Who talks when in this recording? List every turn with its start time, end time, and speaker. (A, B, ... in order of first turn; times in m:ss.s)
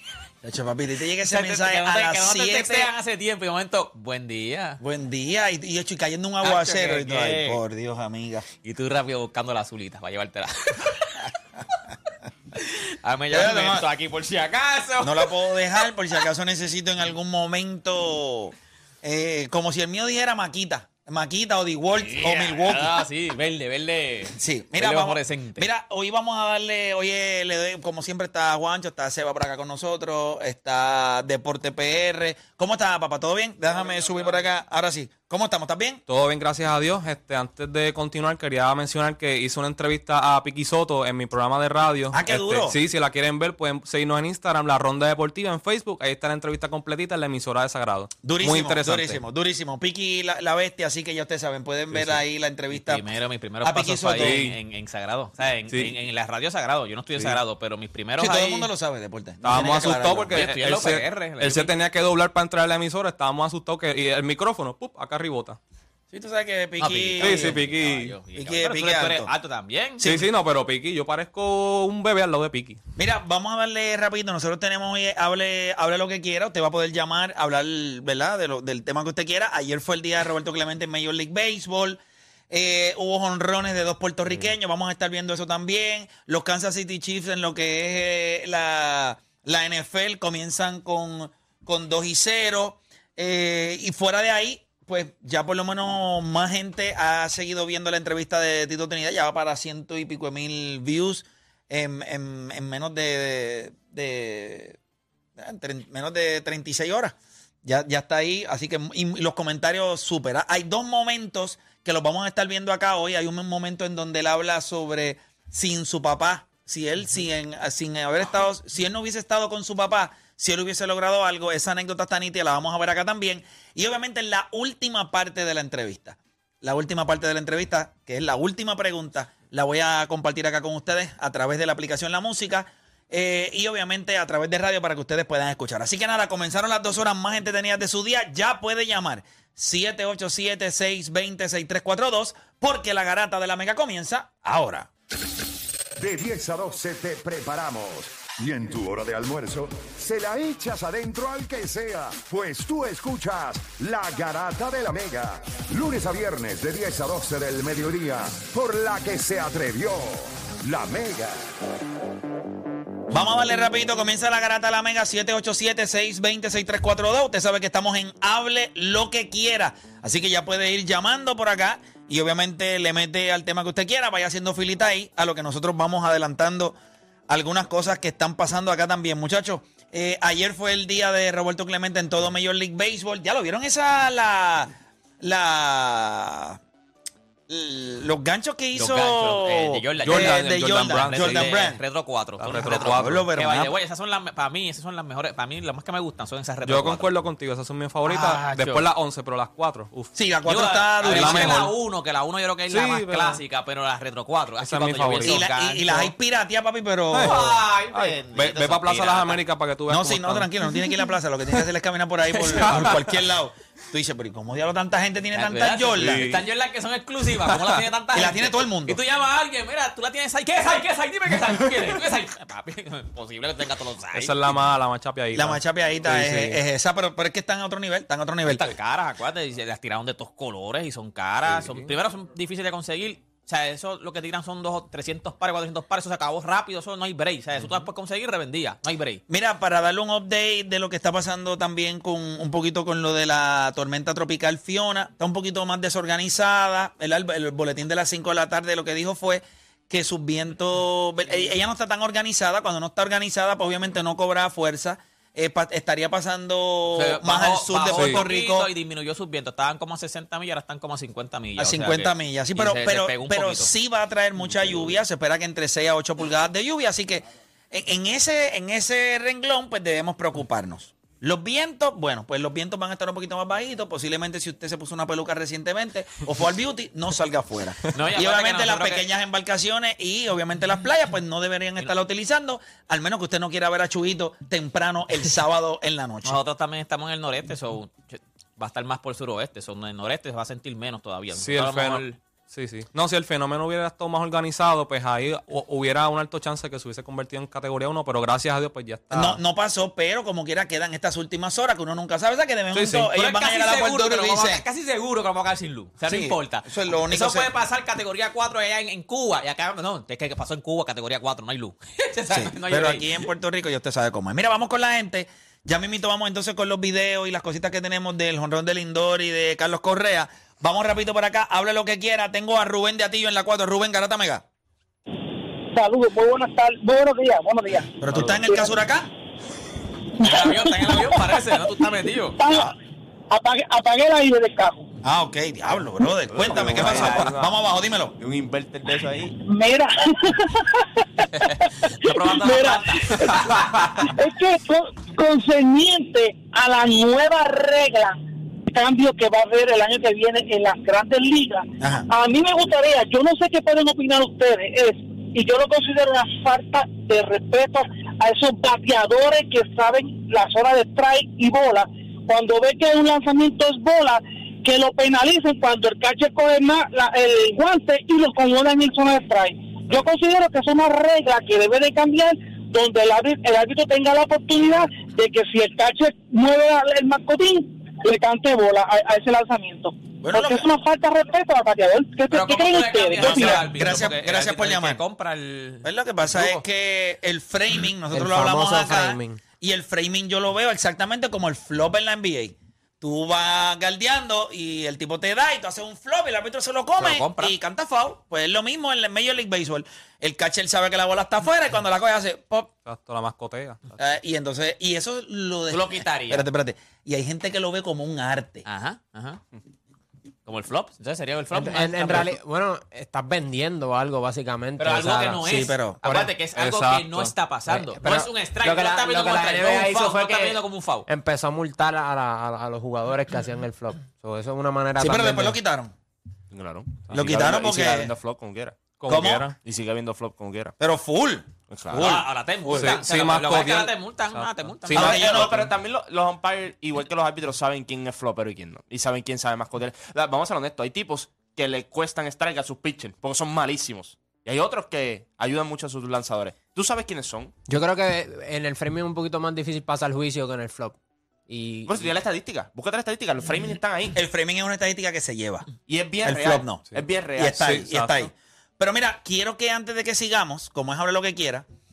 0:00.4-0:02.9 A
0:01.3-0:04.8 B
0:04.8-0:08.4 A
0:06.4-0:07.6 B
0:08.6-0:11.3 B
0:12.5-0:15.9 B
0:13.3-0:13.8 A
0:15.0-0:23.0 A
0:22.0-0:25.6 B
0:24.4-0:36.0 A
0:36.1-0:49.2 C
0:42.1-0:42.8 A
0:48.2-0:53.0 A
0:52.7-0:58.7 B
0:53.6-0:54.4 A
0:54.2-0:54.6 C
0:58.2-1:00.4 A
0:59.4-1:05.6 C
1:00.3-1:01.7 B
1:06.1-1:07.6 A
1:06.8-1:10.0 B
1:07.2-1:08.1 C
1:08.4-1:09.3 A
1:10.0-1:10.3 A
1:10.0-1:12.8 C
1:13.0-1:44.8 A
1:45.4-2:24.9 A
2:26.0-2:41.4 D
2:43.1-2:56.8 A
2:57.3-3:06.6 A
3:07.5-3:11.8 A
3:08.8-3:17.1 B
3:10.0-3:11.5 C
3:12.4-3:13.2 C
3:12.6-3:13.7 A
3:16.6-3:20.1 C
3:18.0-3:18.8 B
3:20.1-3:21.7 A
3:20.4-3:26.1 B
3:21.0-3:21.7 C
3:22.7-3:23.4 C
3:24.6-3:25.5 C
3:25.2-3:27.4 A
3:27.1-3:30.9 C
3:27.2-3:29.4 B
3:28.0-3:29.2 E
3:29.9-3:36.2 A
3:32.4-3:32.9 B
3:32.5-3:33.1 C
3:35.3-3:44.4 B
3:36.0-3:36.4 C
3:37.4-3:37.8 C
3:38.1-3:39.0 A
3:44.1-3:46.6 C
3:45.3-3:48.7 A
3:48.4-3:59.2 B
3:59.3-4:18.7 A
4:17.0-4:23.7 B
4:17.9-4:18.2 C
4:21.6-4:46.4 A
4:37.9-4:39.0 B
4:46.2-4:52.2 B
4:51.3-4:59.4 C
4:59.1-5:04.6 A
5:02.7-5:13.1 B
5:06.0-5:07.5 A
5:12.3-5:24.4 A
5:25.7-5:28.0 F
5:28.0-5:29.1 A
5:28.1-5:28.5 E
5:30.2-5:31.6 F
5:30.2-5:32.4 B
5:32.4-5:32.7 F
5:33.3-5:34.9 F
5:35.0-5:38.1 A
5:36.3-5:37.6 E
5:38.2-5:39.4 E
5:39.4-5:48.2 F
5:42.0-5:43.5 B
5:48.7-6:23.6 F
5:51.8-5:52.1 A
6:20.2-6:20.7 A
6:22.3-6:26.6 B
6:23.2-6:25.0 A
6:25.8-6:42.7 A
6:28.1-6:29.4 G
6:37.0-6:37.5 B
6:42.8-6:43.8 C
6:44.0-6:48.6 A
6:45.7-6:46.5 B
6:48.6-6:49.4 B
6:50.4-6:52.3 B
6:51.5-6:55.4 G
6:54.8-7:01.0 B
6:55.4-6:56.0 A
6:56.1-6:57.3 C
6:57.7-7:05.6 G
7:05.0-7:05.9 A
7:06.5-7:09.0 E
7:07.1-7:08.1 A
7:09.0-7:09.5 C
7:09.1-7:09.4 A
7:09.6-7:10.7 E
7:10.8-7:13.0 A
7:11.7-7:12.2 E
7:11.9-7:15.4 B
7:12.7-7:15.5 C
7:14.9-7:15.7 A
7:15.0-7:27.5 E
7:27.7-7:31.0 G
7:31.5-7:32.0 G
7:31.8-7:34.2 E
7:34.1-7:35.7 A
7:35.9-7:37.8 E
7:36.2-7:36.8 A
7:36.8-7:38.3 C
7:37.4-7:41.6 A